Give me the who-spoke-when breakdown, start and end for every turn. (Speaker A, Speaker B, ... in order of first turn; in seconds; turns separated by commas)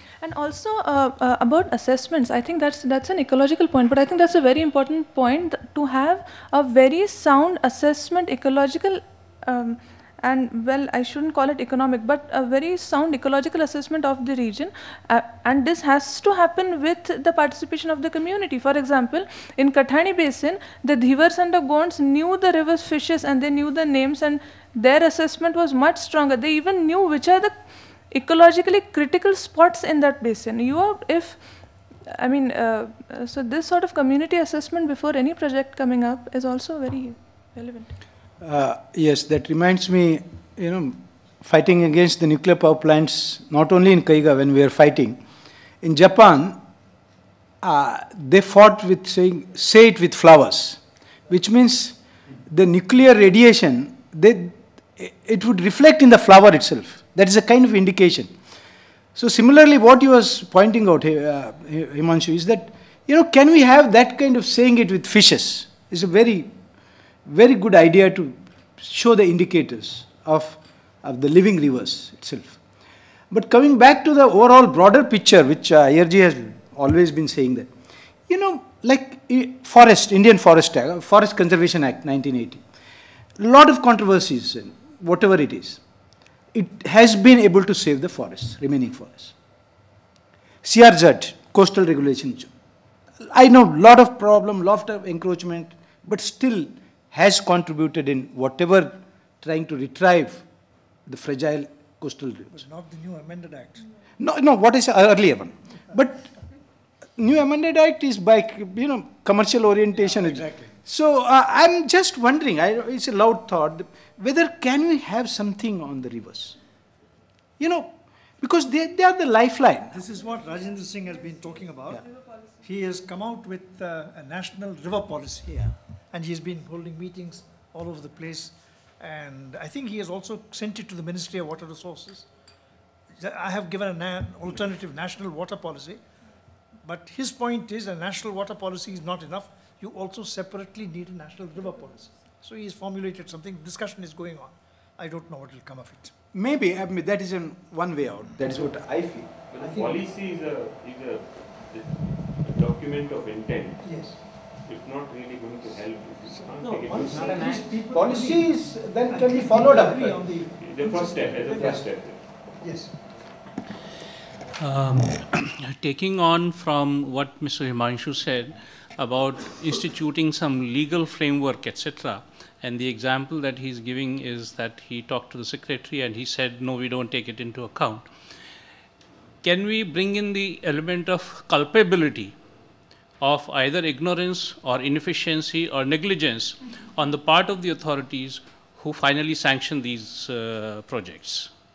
Speaker A: 0.2-27.6, Speaker A: 28.1-31.4, Speaker A: 32.1-37.9, Speaker B: 38.4-45.2, Speaker B: 45.8-46.6, Speaker B: 47.6-58.3, Speaker B: 59.1-66.5, Speaker B: 67.2-72.6, Speaker B: 73.3-77.7, Speaker B: 78.3-82.6, Speaker B: 83.4-85.8, Speaker B: 86.5-89.3, Speaker B: 90.6-92.5, Speaker B: 93.2-100.4, Speaker B: 101.1-102.6, Speaker C: 102.5-103.8, Speaker B: 104.2-106.3, Speaker B: 107.2-116.6, Speaker C: 109.9-110.8, Speaker B: 117.6-120.0, Speaker C: 119.9-132.3, Speaker C: 133.2-136.0, Speaker C: 136.8-146.1, Speaker B: 146.3-149.3, Speaker D: 149.4-157.8, Speaker C: 149.6-150.1, Speaker C: 153.8-154.3, Speaker B: 156.6-160.1, Speaker C: 157.7-161.8, Speaker D: 160.2-162.4, Speaker B: 161.5-161.8, Speaker C: 162.6-162.9, Speaker E: 164.6-178.1, Speaker E: 179.4-182.3, Speaker E: 183.2-191.5